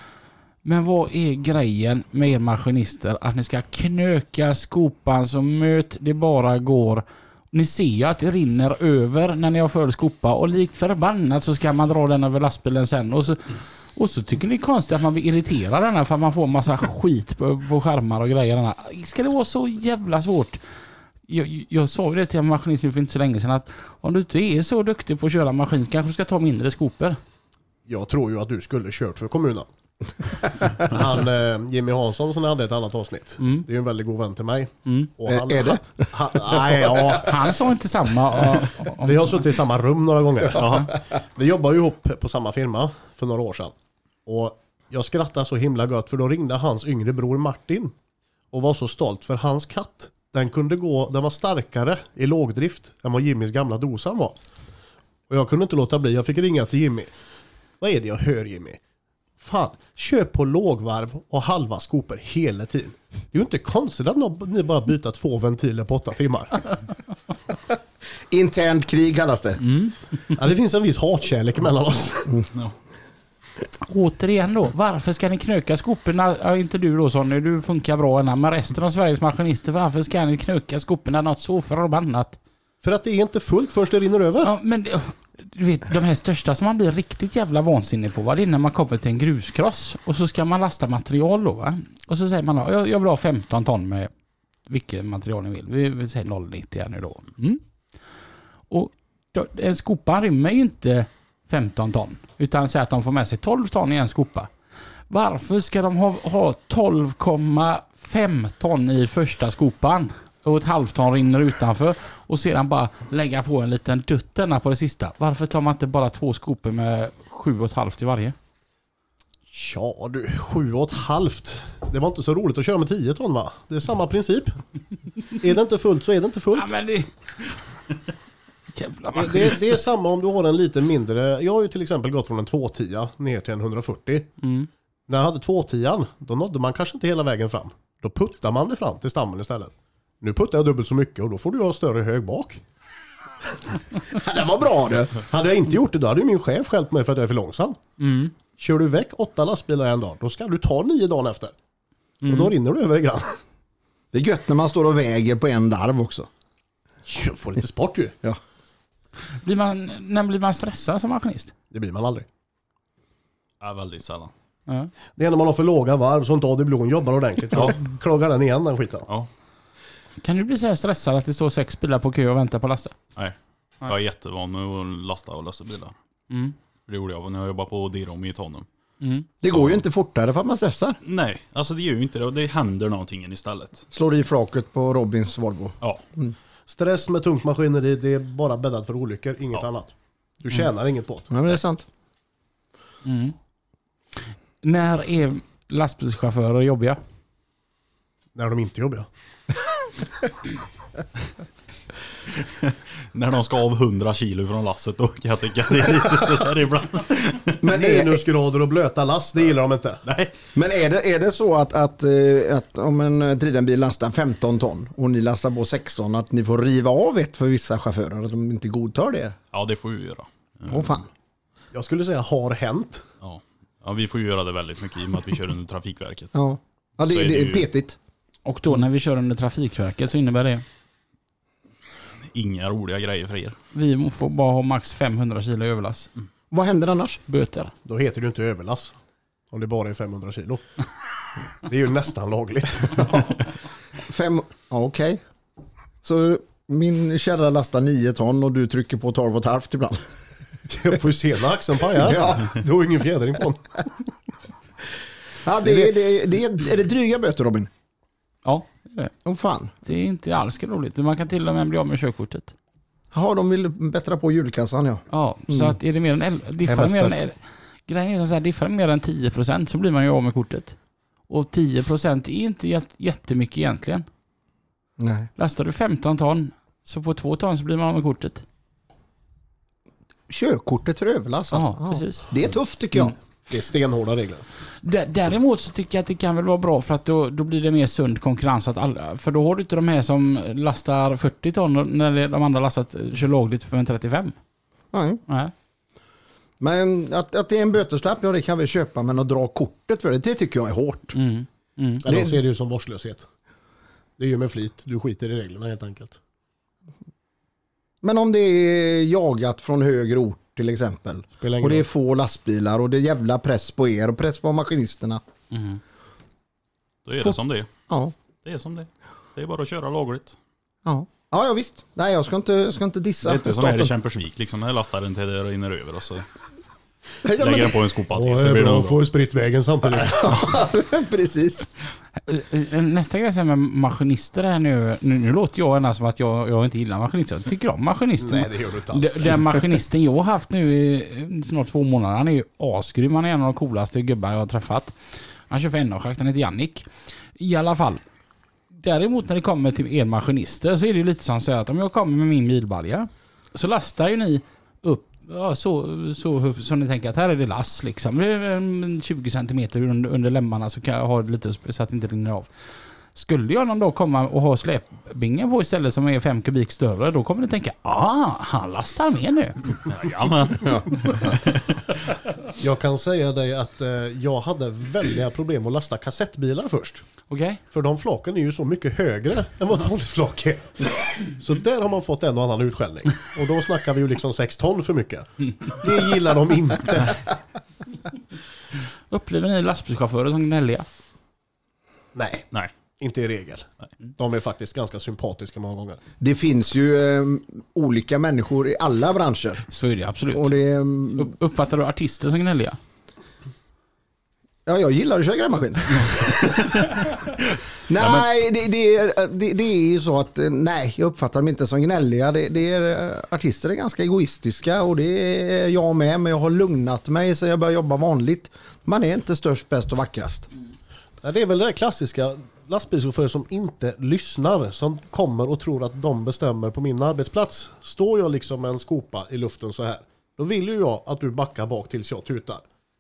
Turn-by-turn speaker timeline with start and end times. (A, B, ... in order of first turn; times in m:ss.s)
0:00.6-0:20.6 A
0:21.3-0:27.2 A
0:27.9-0:29.7 B
0:30.4-0:37.5 B
0:33.4-0:33.7 A
0:34.9-0:35.1 A
0:35.2-0:37.2 C
0:37.2-0:39.4 A
0:39.0-0:43.7 B
0:40.5-0:40.9 D
0:40.6-0:40.9 A
0:44.3-0:47.9 B
0:48.5-0:54.4 B
0:55.3-0:57.1 B
0:57.8-0:58.8 B
0:59.4-1:06.7 B
1:08.3-1:09.6 C
1:09.6-1:10.0 A
1:10.4-1:12.4 B
1:13.8-1:22.4 A
1:22.8-1:24.5 B
1:24.4-1:34.1 A
1:34.7-1:37.6 A
1:38.7-1:44.5 A
1:45.1-1:58.4 A
1:59.5-2:04.6 B
2:05.4-2:06.7 B
2:06.6-2:07.5 A
2:08.7-2:09.7 A
2:09.2-2:14.3 B
2:14.4-2:14.7 A
2:15.1-2:22.6 B
2:24.1-2:25.2 C
2:25.3-2:27.8 B
2:28.0-2:28.3 A
2:28.6-2:31.5 B
2:32.2-2:32.5 A
2:32.3-2:33.4 B
2:34.1-2:36.3 C
2:37.1-2:38.2 B
2:39.4-2:41.5 A
2:41.7-2:42.3 B
2:43.6-2:44.3 D
2:45.2-2:49.1 B
2:50.2-2:53.0 A
2:53.2-2:56.0 D
2:56.3-2:56.6 A
2:56.9-2:58.7 D
2:59.0-2:59.3 A
2:59.4-3:01.0 C
2:59.4-2:59.8 D
3:01.0-3:03.8 D
3:03.9-3:06.4 C
3:06.7-3:11.3 B
3:11.3-3:11.9 C
3:13.0-3:13.4 A
3:14.6-3:17.0 A
3:18.4-3:19.1 B
3:22.3-3:27.6 D
3:27.6-3:28.2 C
3:27.7-3:30.0 B
3:30.0-3:30.3 D
3:30.5-3:39.4 C
3:39.5-3:41.0 D
3:40.7-3:41.1 C
3:41.7-3:43.0 B
3:43.2-3:46.3 D
3:46.3-3:48.0 C
3:47.0-3:47.7 D
3:48.5-3:50.6 A
3:52.3-3:53.6 D
3:53.7-3:56.1 A
3:56.5-3:57.2 C
3:57.3-3:57.7 A
3:57.8-3:58.9 B
3:59.5-4:00.6 B
4:01.6-4:03.2 B
4:04.0-4:05.2 C
4:06.0-4:10.0 C
4:10.7-4:13.9 B
4:12.0-4:12.6 C
4:15.4-4:17.7 C
4:18.4-4:19.1 A
4:19.2-4:19.7 C
4:19.8-4:22.5 A
4:23.1-4:25.8 C
4:25.1-4:30.8 A
4:31.3-4:34.1 A
4:35.0-4:35.3 C
4:35.4-4:38.4 A
4:40.3-4:43.2 C
4:41.5-4:42.3 A
4:43.5-4:44.4 B
4:44.8-4:54.4 A
4:54.9-4:55.2 C
4:55.3-4:55.5 A
4:56.6-5:01.2 C
5:01.1-5:02.0 A
5:02.0-5:03.3 B
5:02.0-5:02.4 C
5:04.2-5:06.2 B
5:08.0-5:15.2 C
5:11.4-5:11.9 B
5:15.5-5:15.8 A
5:17.0-5:17.7 D
5:17.9-5:18.1 C
5:18.4-5:20.4 D
5:20.8-5:23.9 C
5:23.2-5:26.2 D
5:27.2-5:27.9 C
5:27.3-5:29.0 D
5:28.1-5:30.6 B
5:30.1-5:31.7 C
5:32.3-5:48.0 A
5:38.2-5:39.6 B
5:48.7-6:02.5 A
6:03.1-6:09.8 A
6:09.9-6:11.7 D
6:10.6-6:11.3 C
6:12.6-6:17.0 B
6:17.3-6:17.6 A
6:17.7-6:27.3 B
6:29.1-6:30.9 A
6:32.2-6:32.5 B
6:33.0-6:36.0 B
6:36.2-6:39.6 C
6:39.7-6:40.6 A
6:40.3-6:41.3 C
6:41.1-6:42.8 A
6:44.7-6:47.0 C
6:46.4-6:47.0 D
6:47.9-7:00.5 C
6:48.0-6:48.2 D
7:01.2-7:12.6 B